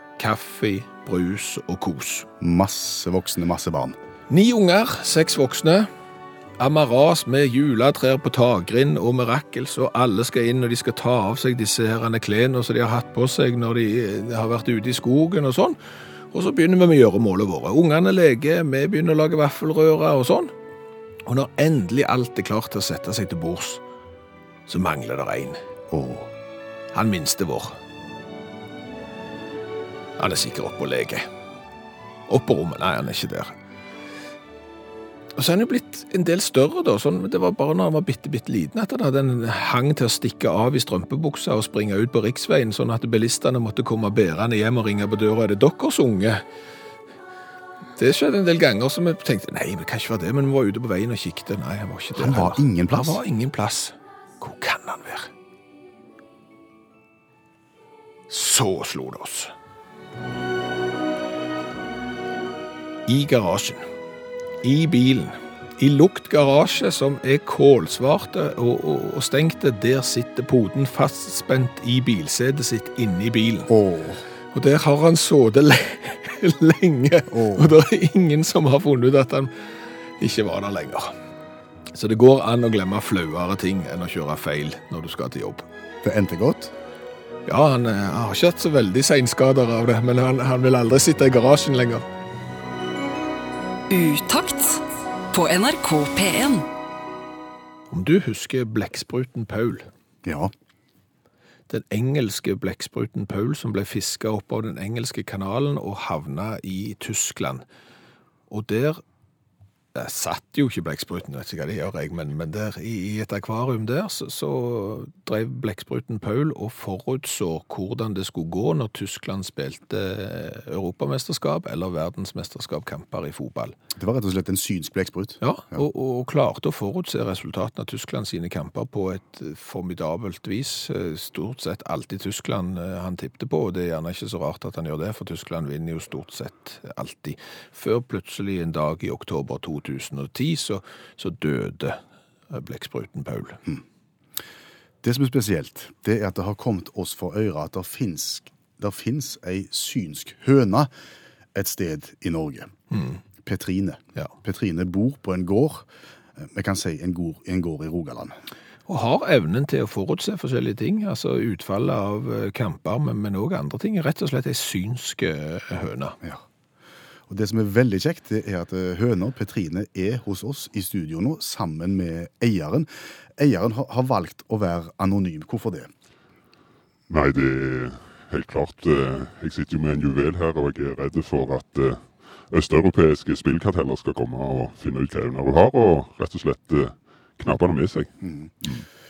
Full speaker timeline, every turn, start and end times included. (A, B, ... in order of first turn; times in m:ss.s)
0:00.2-0:02.3 A
0:02.4-0:04.0 B
0:04.3-0:05.9 A
0:06.6-0:15.8 A
0:16.3-0:20.5 A
0:21.2-0:23.8 A
0:24.7-0:25.6 A
0:25.9-0:26.3 B
0:26.9-0:27.8 A
0:30.2-0:31.3 A
0:32.3-0:33.5 A
0:35.4-0:46.4 A
0:47.9-0:55.3 A
0:52.1-0:53.2 B
0:58.3-0:59.5 A
1:03.0-1:03.9 A
1:04.6-1:13.7 A
1:13.7-1:14.2 B
1:14.5-1:21.2 A
1:17.3-1:17.7 B
1:21.9-1:25.7 A
1:26.0-1:26.7 B
1:27.4-1:32.1 A
1:33.9-1:36.6 C
1:37.9-1:39.9 A
1:40.2-1:40.5 B
1:41.7-1:47.6 A
1:48.5-1:49.0 A
1:49.9-2:03.7 A
2:04.0-2:05.8 B
2:05.4-2:23.6 A
2:25.0-2:30.9 B
2:31.5-2:32.7 B
2:32.9-2:33.2 A
2:33.4-2:38.4 B
2:38.9-2:46.2 A
2:47.3-2:55.9 B
2:57.1-3:08.1 D
3:08.2-3:08.7 B